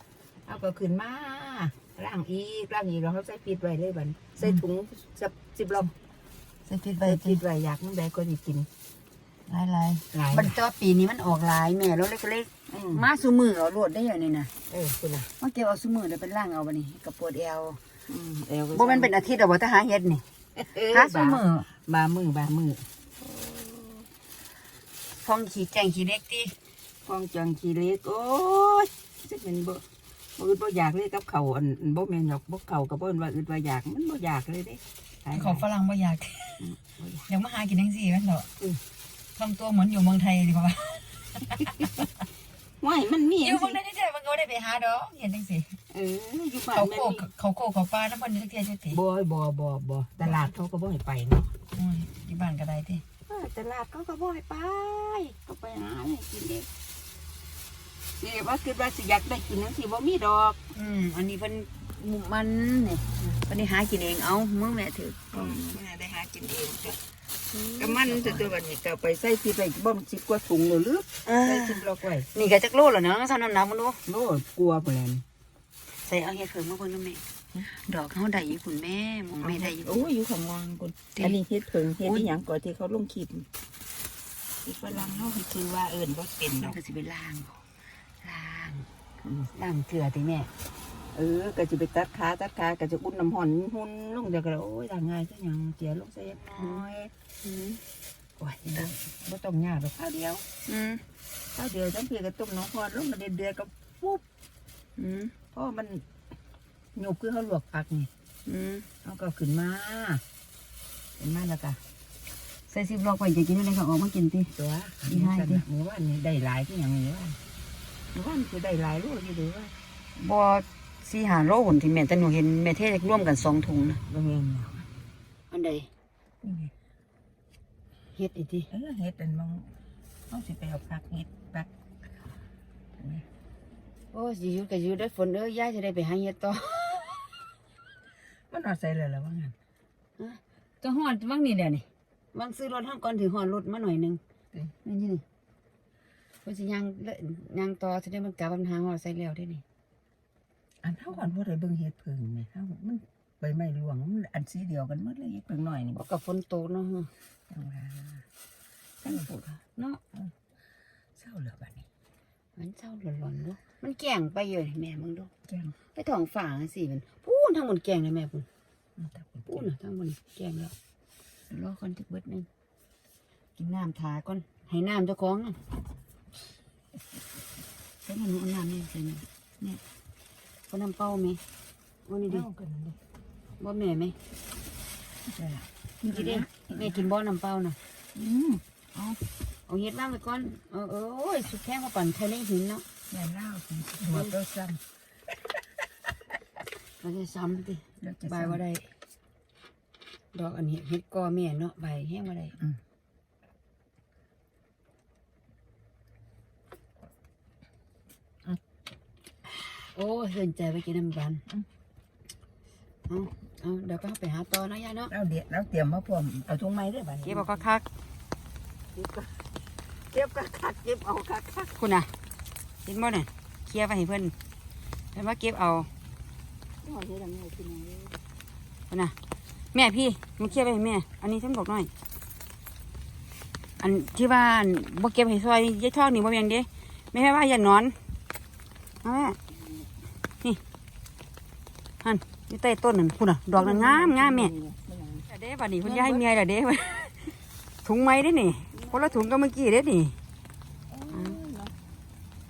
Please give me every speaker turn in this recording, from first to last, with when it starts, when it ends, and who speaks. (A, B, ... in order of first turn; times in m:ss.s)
0:00.4-0:05.9 A
0:06.6-0:07.4 B
0:07.0-0:08.7 A
0:09.5-0:14.5 B
0:10.1-0:10.6 A
0:12.7-0:13.1 A
0:14.7-0:15.3 A
0:15.4-0:17.8 B
0:18.1-0:19.2 A
0:18.7-0:20.2 B
0:20.6-0:24.0 A
0:20.9-0:21.7 B
0:25.2-0:26.5 B
0:27.0-0:29.8 A
0:30.4-0:35.6 A
0:35.3-0:38.5 B
0:39.4-0:42.1 B
0:42.8-0:43.8 A
0:43.4-0:45.8 B
0:45.9-0:47.3 A
0:46.7-0:49.0 B
0:48.9-0:51.5 A
0:51.7-0:53.0 B
0:53.3-0:56.7 A
0:58.2-1:00.6 A
1:00.7-1:05.6 B
1:05.3-1:07.0 A
1:07.5-1:08.5 B
1:07.8-1:12.3 A
1:11.2-1:14.0 B
1:14.1-1:15.2 A
1:16.0-1:20.1 B
1:19.4-1:23.5 A
1:22.0-1:22.3 B
1:24.6-1:26.8 A
1:26.6-1:27.6 B
1:28.2-1:28.9 B
1:29.2-1:29.5 A
1:29.5-1:30.5 B
1:31.1-1:37.1 A
1:36.5-1:36.8 B
1:37.4-1:37.8 B
1:38.4-1:38.9 B
1:38.6-1:40.4 A
1:40.7-1:41.0 B
1:41.5-1:44.2 A
1:45.0-1:45.3 B
1:45.5-1:46.0 A
1:47.0-1:48.1 A
1:48.5-1:48.9 B
1:49.0-1:50.2 A
1:51.2-1:51.8 A
1:52.7-1:54.5 B
1:54.5-1:57.4 A
1:55.0-1:55.6 B
1:58.1-1:59.7 A
2:00.2-2:04.0 B
2:04.1-2:04.8 A
2:05.5-2:05.9 B
2:06.4-2:06.7 A
2:08.1-2:08.7 B
2:08.7-2:09.8 A
2:10.3-2:11.7 A
2:13.0-2:13.2 A
2:14.1-2:17.2 B
2:18.5-2:19.5 A
2:20.2-2:24.2 B
2:24.8-2:25.2 B
2:26.4-2:29.6 B
2:30.8-2:36.0 A
2:35.9-2:37.1 B
2:37.5-2:38.2 A
2:39.0-2:39.5 A
2:39.0-2:40.0 B
2:41.2-2:41.8 A
2:42.6-2:45.3 B
2:45.5-2:45.7 A
2:45.9-2:48.5 B
2:49.0-2:49.7 A
2:49.5-2:50.7 B
2:51.5-2:52.5 B
2:53.6-2:55.6 B
2:58.0-2:59.2 B
3:00.7-3:01.4 B
3:02.1-3:02.5 B
3:02.2-3:03.0 A
3:03.6-3:04.2 B
3:05.3-3:07.1 A
3:06.0-3:07.8 B
3:08.1-3:09.2 A
3:09.7-3:12.8 B
3:13.1-3:14.8 A
3:17.0-3:18.9 B
3:18.0-3:18.6 A
3:20.3-3:22.6 B
3:29.9-3:31.4 B
3:33.0-3:35.1 B
3:35.1-3:37.6 A
3:37.2-3:37.8 B
3:38.9-3:39.4 A
3:40.1-3:41.7 A
3:41.8-3:42.1 B
3:42.8-3:44.3 B
3:45.1-3:45.9 B
3:46.8-3:48.2 A
3:49.7-3:51.9 B
3:53.8-3:57.9 B
3:59.0-3:59.4 B
4:02.0-4:04.5 B
4:03.5-4:05.3 A
4:05.3-4:10.1 B
4:05.8-4:06.2 A
4:08.7-4:09.2 A
4:10.9-4:11.8 A